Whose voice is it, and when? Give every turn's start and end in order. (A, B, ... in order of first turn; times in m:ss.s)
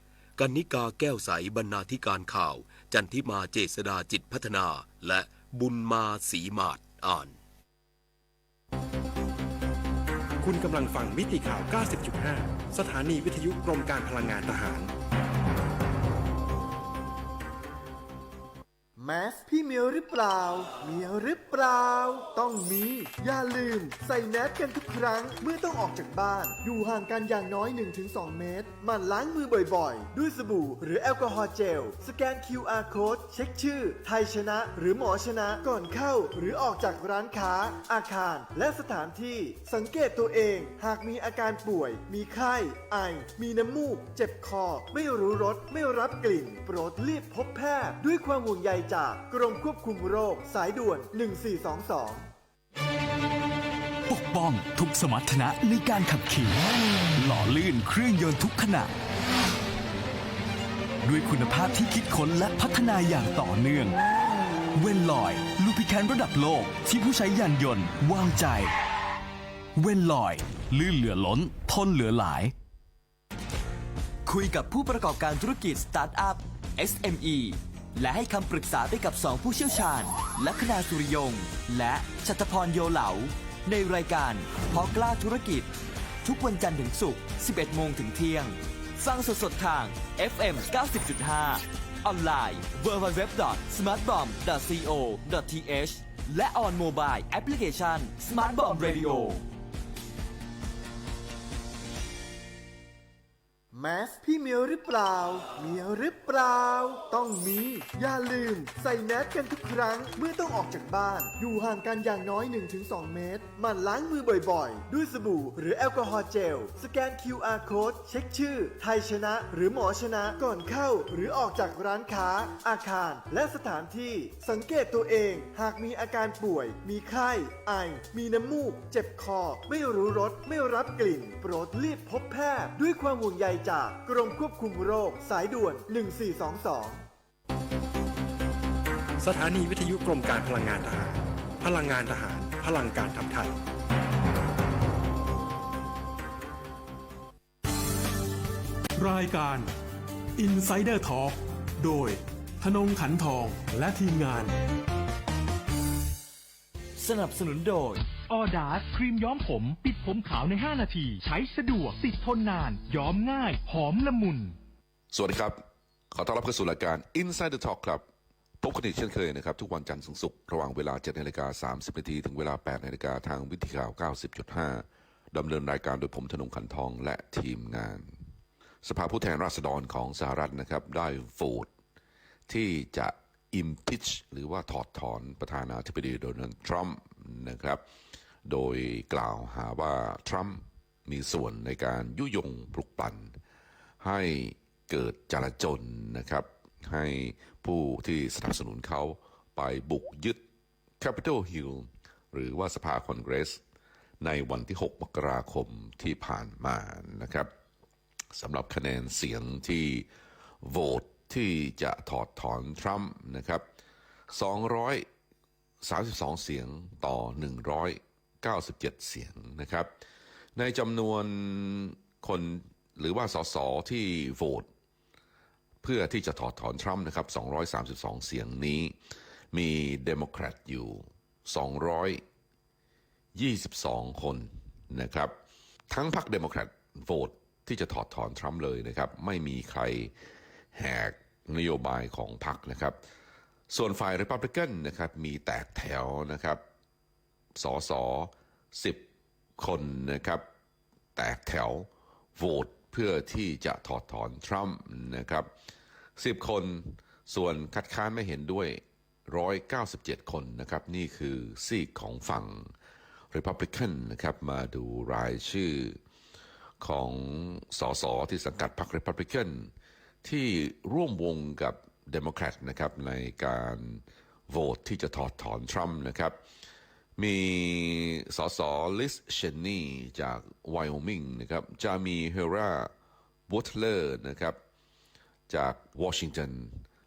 0:00.4-0:07.4 A
0:10.4-0:14.9 B
0:19.0-0:52.3 C
0:54.1-0:56.6 D
0:57.2-0:58.9 D
1:01.0-1:04.0 D
1:04.8-1:05.5 D
1:05.4-1:08.5 E
1:07.6-1:07.9 D
1:09.8-1:12.5 D
1:14.2-1:25.7 E
1:26.2-1:39.4 E
1:43.7-2:17.0 C
2:19.2-2:23.6 B
2:29.0-2:29.7 F
2:30.4-2:34.6 F
2:37.0-2:38.0 E
2:38.3-2:44.6 G
2:45.1-2:48.0 H
2:48.6-2:58.1 H
2:58.8-3:01.7 H
3:02.5-3:07.8 H
3:08.4-3:13.4 H
3:14.0-3:20.4 H
3:21.0-3:23.6 H
3:24.2-3:27.5 H
3:28.3-3:30.1 H
3:30.6-3:33.6 H
3:34.3-3:35.1 H
3:35.8-3:39.9 H
3:40.6-3:44.7 H
3:45.8-3:49.0 H
3:49.5-3:52.2 H
3:53.3-3:55.3 H
3:55.9-4:00.1 H
4:00.7-4:03.0 H
4:03.7-4:06.6 H
4:07.6-4:09.0 H
4:09.6-4:10.4 H
4:11.2-4:15.5 H
4:16.2-4:22.7 H
4:23.3-4:26.0 H
4:26.8-4:29.7 H
4:30.2-4:36.4 H
4:37.2-4:42.9 H
4:43.5-4:44.6 H
4:45.5-4:46.8 H